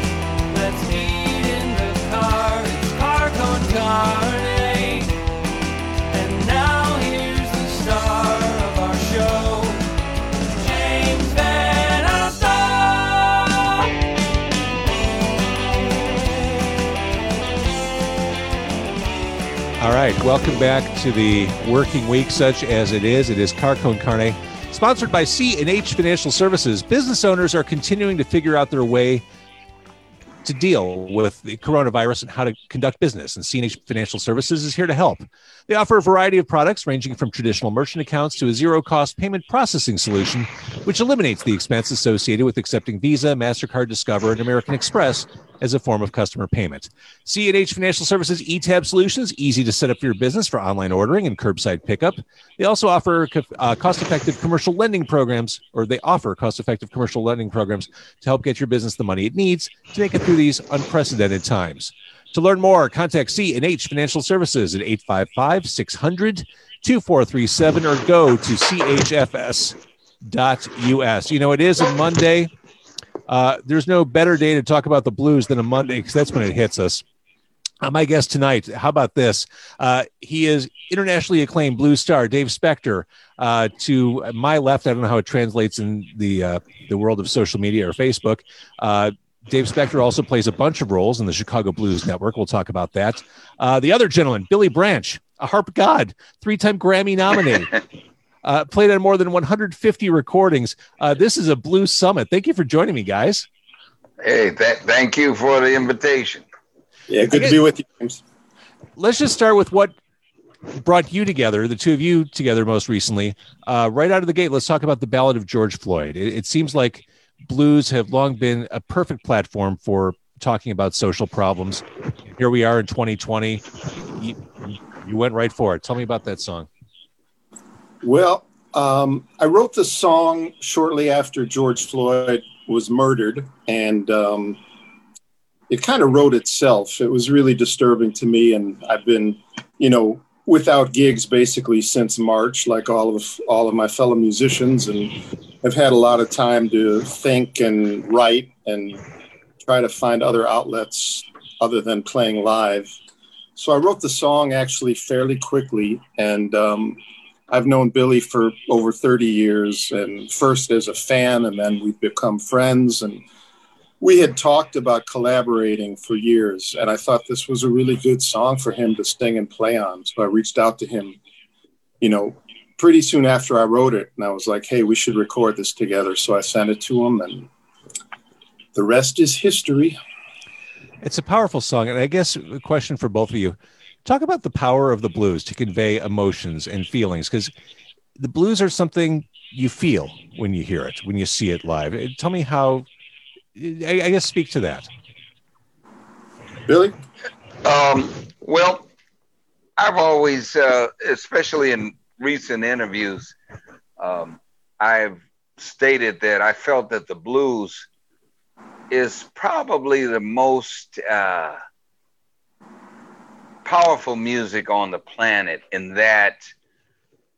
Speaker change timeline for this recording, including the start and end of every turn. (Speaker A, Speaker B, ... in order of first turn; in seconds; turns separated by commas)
Speaker A: 0.5-5.4, Speaker A: 6.1-9.9, Speaker A: 10.4-13.9, Speaker A: 14.8-16.6, Speaker B: 19.8-29.2, Speaker B: 30.4-72.5, Speaker B: 73.3-77.0, Speaker B: 77.8-97.8, Speaker B: 98.4-103.5, Speaker C: 104.2-106.4, Speaker D: 107.1-108.2, Speaker B: 109.0-109.9, Speaker B: 110.8-121.8, Speaker B: 122.4-126.7, Speaker D: 128.0-134.6, Speaker D: 135.7-149.0, Speaker D: 149.6-152.9, Speaker D: 153.6-163.2, Speaker D: 164.0-171.2, Speaker D: 172.0-177.5, Speaker D: 178.7-180.0, Speaker B: 181.0-187.5, Speaker B: 188.2-192.9, Speaker B: 193.6-194.9, Speaker D: 196.7-196.9, Speaker C: 197.6-198.9, Speaker C: 199.8-203.3, Speaker C: 204.0-207.9, Speaker C: 208.9-211.6, Speaker C: 213.6-216.4